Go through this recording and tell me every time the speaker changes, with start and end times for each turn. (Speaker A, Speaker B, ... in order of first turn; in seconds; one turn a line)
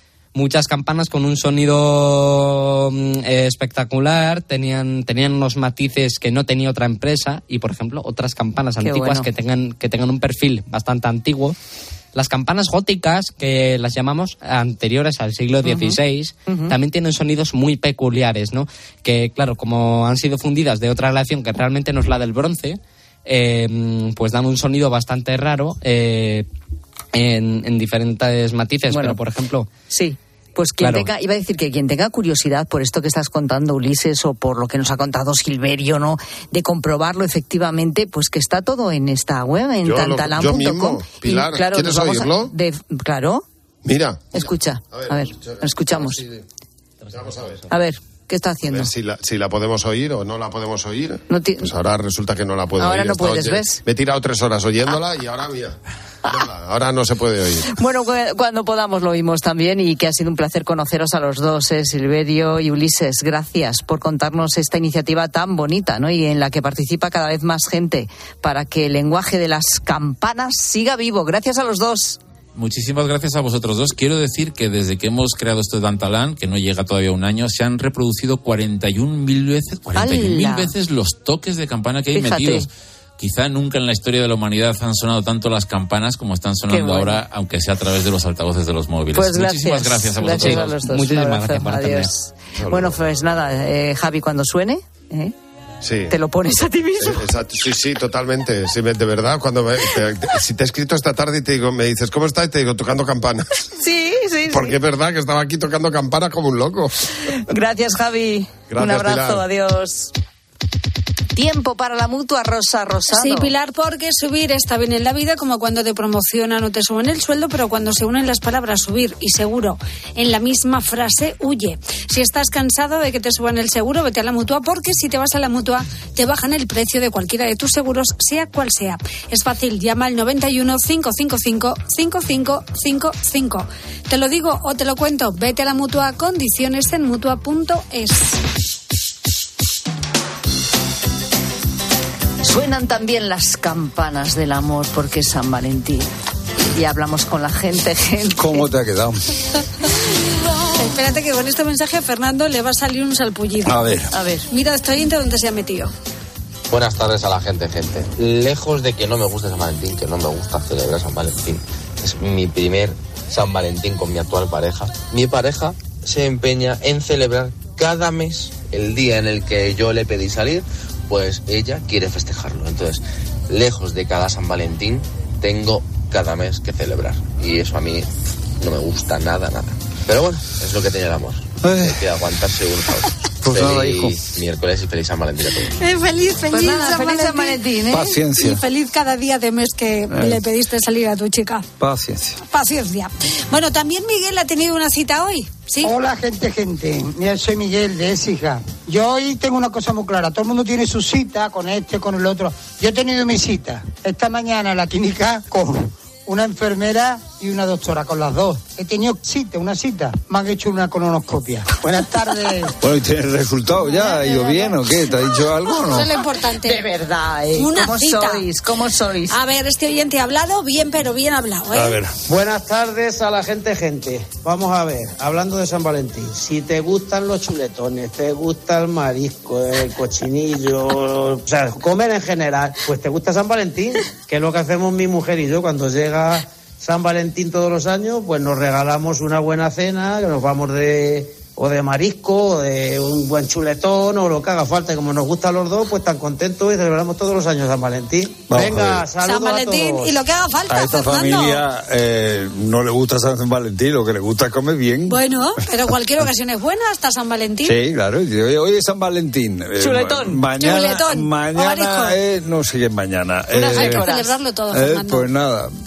Speaker A: 0.3-11.6
Speaker B: 8.8-9.3
Speaker A: 12.1-26.5
Speaker B: 15.6-16.7
Speaker A: 27.1-29.7
Speaker B: 28.9-29.2
Speaker B: 29.9-43.5
Speaker A: 30.8-31.1
Speaker C: 39.8-42.5
Speaker C: 43.9-46.4
Speaker B: 44.3-46.2
Speaker C: 47.1-47.7
Speaker B: 47.7-48.9
Speaker C: 48.6-57.7
Speaker B: 51.3-51.7
Speaker B: 52.8-53.8
Speaker B: 57.7-72.2
Speaker D: 72.5-90.7
Speaker B: 80.0-80.7
Speaker B: 82.1-82.7
Speaker B: 86.7-87.2
Speaker B: 89.1-95.3
Speaker A: 90.3-92.1
Speaker C: 92.6-93.0
Speaker C: 95.8-96.1
Speaker B: 96.1-97.3
Speaker C: 97.0-103.4
Speaker B: 103.8-104.8
Speaker C: 104.5-107.1
Speaker B: 107.5-110.1
Speaker C: 108.7-109.4
Speaker B: 111.3-113.5
Speaker E: 113.1-138.4
Speaker B: 142.4-146.1
Speaker B: 146.7-148.7
Speaker F: 148.4-149.2
Speaker E: 150.8-153.9
Speaker F: 153.7-154.1
Speaker B: 154.1-154.5
Speaker E: 154.5-155.9
Speaker G: 156.7-185.7
Speaker F: 181.6-182.0
Speaker F: 183.4-184.2
Speaker E: 185.8-187.6
Speaker B: 186.5-188.2
Speaker F: 187.9-188.6
Speaker E: 188.3-191.7
Speaker F: 190.1-190.4
Speaker F: 191.8-192.4
Speaker E: 192.5-195.9
Speaker H: 195.8-212.7
Speaker F: 212.8-216.1
Speaker E: 215.8-216.8
Speaker B: 216.6-219.4
Speaker E: 217.6-218.5
Speaker E: 219.3-222.0
Speaker F: 221.7-222.2
Speaker I: 222.3-250.2
Speaker F: 248.5-249.1
Speaker E: 249.2-251.7
Speaker F: 250.7-255.2
Speaker E: 255.1-257.8
Speaker F: 257.6-264.1
Speaker B: 259.8-260.4
Speaker E: 260.6-262.2
Speaker B: 263.5-264.4
Speaker E: 263.7-265.3
Speaker F: 264.7-265.7